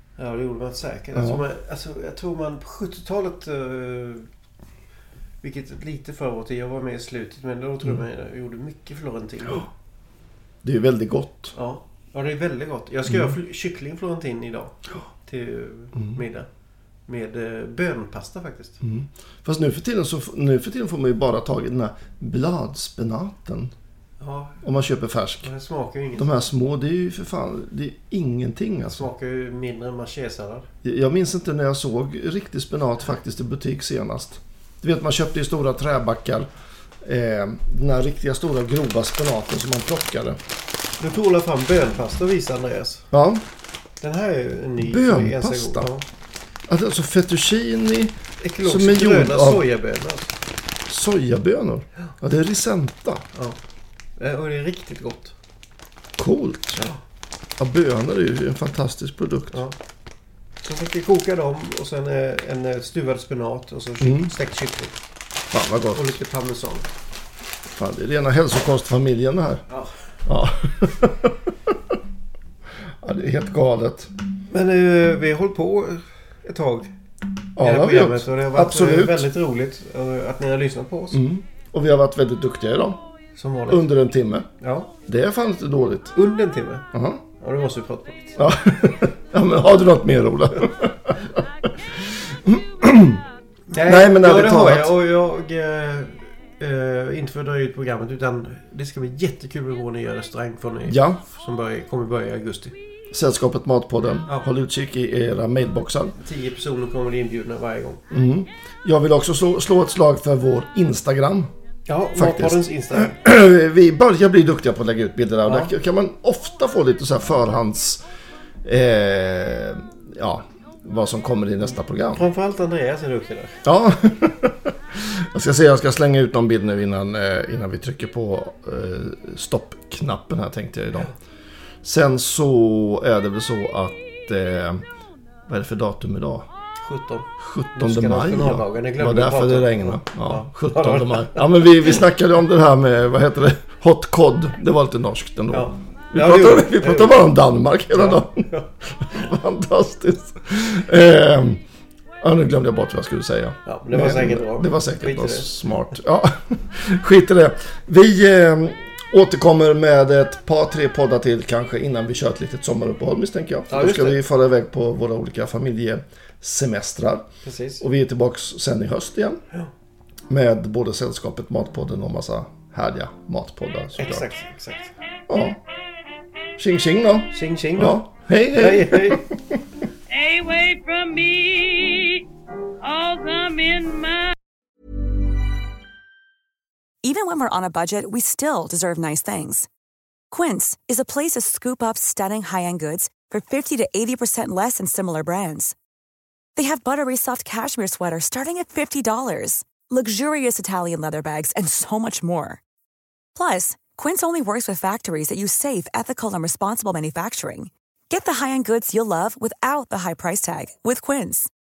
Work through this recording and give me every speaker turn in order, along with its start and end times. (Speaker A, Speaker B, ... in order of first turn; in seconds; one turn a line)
Speaker A: 0.2-4.3
Speaker B: 1.1-1.4
Speaker A: 5.4-9.7
Speaker B: 10.6-11.6
Speaker A: 11.5-16.5
Speaker B: 13.1-13.4
Speaker A: 17.1-18.8
Speaker B: 18.8-23.7
Speaker A: 24.2-24.6
Speaker B: 24.6-25.5
Speaker A: 25.4-26.3
Speaker B: 26.1-29.1
Speaker A: 28.9-30.7
Speaker B: 30.8-36.5
Speaker B: 37.0-40.4
Speaker A: 41.0-43.1
Speaker B: 43.1-43.4
Speaker A: 44.0-46.1
Speaker B: 44.8-45.9
Speaker B: 46.7-49.6
Speaker A: 48.4-50.3
Speaker B: 50.9-53.2
Speaker A: 54.2-55.4
Speaker B: 56.2-56.9
Speaker B: 57.6-59.6
Speaker A: 60.6-65.0
Speaker B: 64.0-64.3
Speaker B: 65.5-66.2
Speaker A: 65.9-66.9
Speaker B: 67.8-69.6
Speaker A: 69.7-69.9
Speaker B: 70.3-72.0
Speaker B: 73.0-74.1
Speaker A: 74.5-76.9
Speaker B: 77.6-79.3
Speaker A: 77.6-81.2
Speaker B: 81.1-83.0
Speaker A: 83.4-83.9
Speaker B: 83.7-84.5
Speaker A: 84.6-84.9
Speaker B: 85.1-86.2
Speaker A: 86.1-86.9
Speaker B: 86.9-87.2
Speaker A: 87.4-88.4
Speaker B: 88.4-93.2
Speaker A: 93.7-102.8
Speaker B: 93.8-95.0
Speaker B: 100.9-101.2
Speaker B: 103.1-106.2
Speaker A: 106.2-108.0
Speaker B: 108.1-111.5
Speaker A: 111.9-113.2
Speaker B: 112.1-118.0
Speaker A: 115.5-115.7
Speaker B: 118.6-122.2
Speaker A: 122.1-123.6
Speaker B: 123.6-131.1
Speaker B: 131.8-134.8
Speaker B: 135.5-136.5
Speaker A: 136.8-141.7
Speaker B: 137.4-151.6
Speaker A: 145.5-147.2
Speaker A: 147.9-148.7
Speaker B: 152.2-167.3
Speaker A: 153.7-155.6
Speaker A: 163.7-164.2
Speaker A: 167.4-167.8
Speaker B: 167.8-169.4
Speaker B: 170.3-174.3
Speaker A: 174.0-174.9
Speaker B: 175.3-175.6
Speaker B: 176.6-179.6
Speaker A: 177.3-178.0
Speaker A: 178.5-179.2
Speaker C: 180.1-182.2
Speaker C: 182.8-184.3
Speaker D: 187.0-189.7
Speaker D: 190.3-195.8
Speaker D: 196.6-202.6
Speaker D: 203.3-211.5